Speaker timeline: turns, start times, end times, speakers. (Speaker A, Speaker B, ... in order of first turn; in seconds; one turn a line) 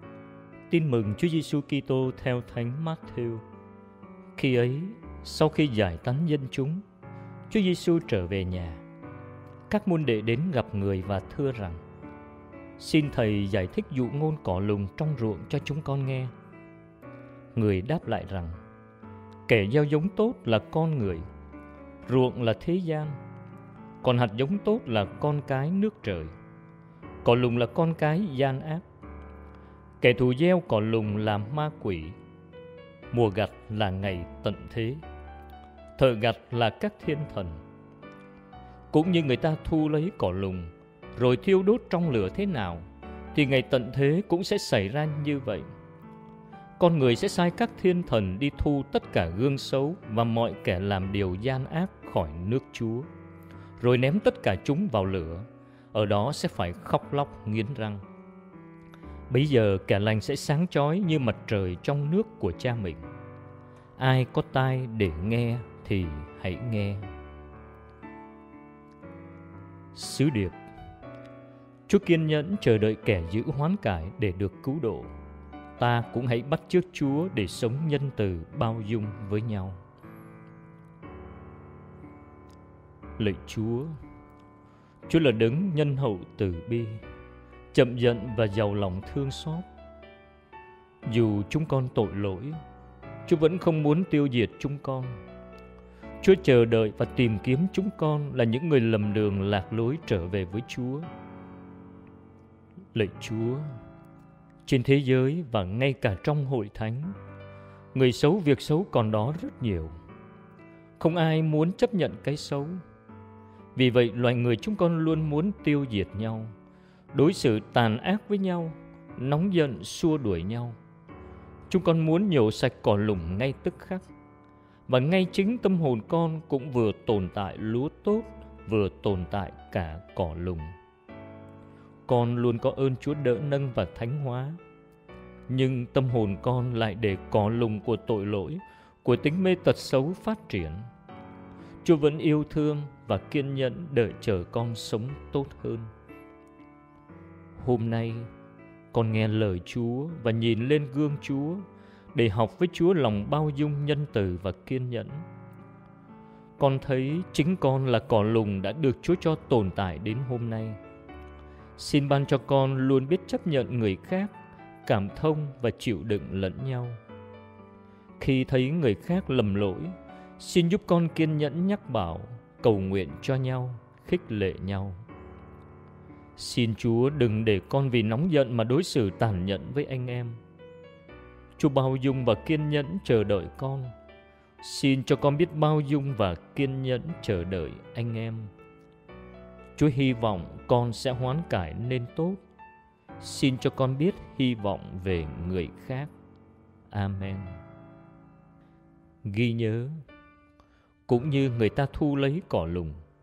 Speaker A: 0.7-3.4
Speaker A: 4.3-6.8
Speaker A: 7.5-8.8
Speaker A: 9.7-11.8
Speaker A: 12.8-16.3
Speaker A: 17.5-18.6
Speaker A: 19.5-21.3
Speaker A: 22.0-23.2
Speaker A: 24.0-26.3
Speaker A: 27.2-28.8
Speaker A: 30.0-32.1
Speaker A: 33.1-35.0
Speaker A: 36.0-37.6
Speaker A: 38.9-45.7
Speaker A: 46.8-53.1
Speaker A: 53.8-58.0
Speaker A: 59.3-63.0
Speaker A: 64.0-67.1
Speaker A: 69.9-70.6
Speaker A: 71.9-75.1
Speaker A: 75.8-79.8
Speaker A: 83.2-84.0
Speaker A: 85.1-87.0
Speaker A: 87.7-89.6
Speaker A: 91.0-92.6
Speaker A: 93.2-95.2
Speaker A: 96.2-101.1
Speaker A: 102.9-103.7
Speaker A: 104.6-107.2
Speaker A: 107.9-109.9
Speaker A: 111.0-112.8
Speaker A: 113.7-116.5
Speaker A: 117.1-120.8
Speaker A: 121.7-124.1
Speaker A: 124.9-130.7
Speaker A: 132.1-134.6
Speaker A: 135.5-140.9
Speaker A: 141.8-145.9
Speaker A: 147.6-148.3
Speaker A: 148.9-155.2
Speaker A: 156.6-160.8
Speaker A: 161.8-164.3
Speaker A: 164.8-167.0
Speaker A: 168.2-175.0
Speaker A: 176.4-180.4
Speaker A: 181.6-183.9
Speaker A: 184.6-188.5
Speaker A: 189.8-192.4
Speaker A: 193.2-196.1
Speaker A: 196.9-197.6
Speaker A: 199.2-200.0
Speaker A: 201.1-203.0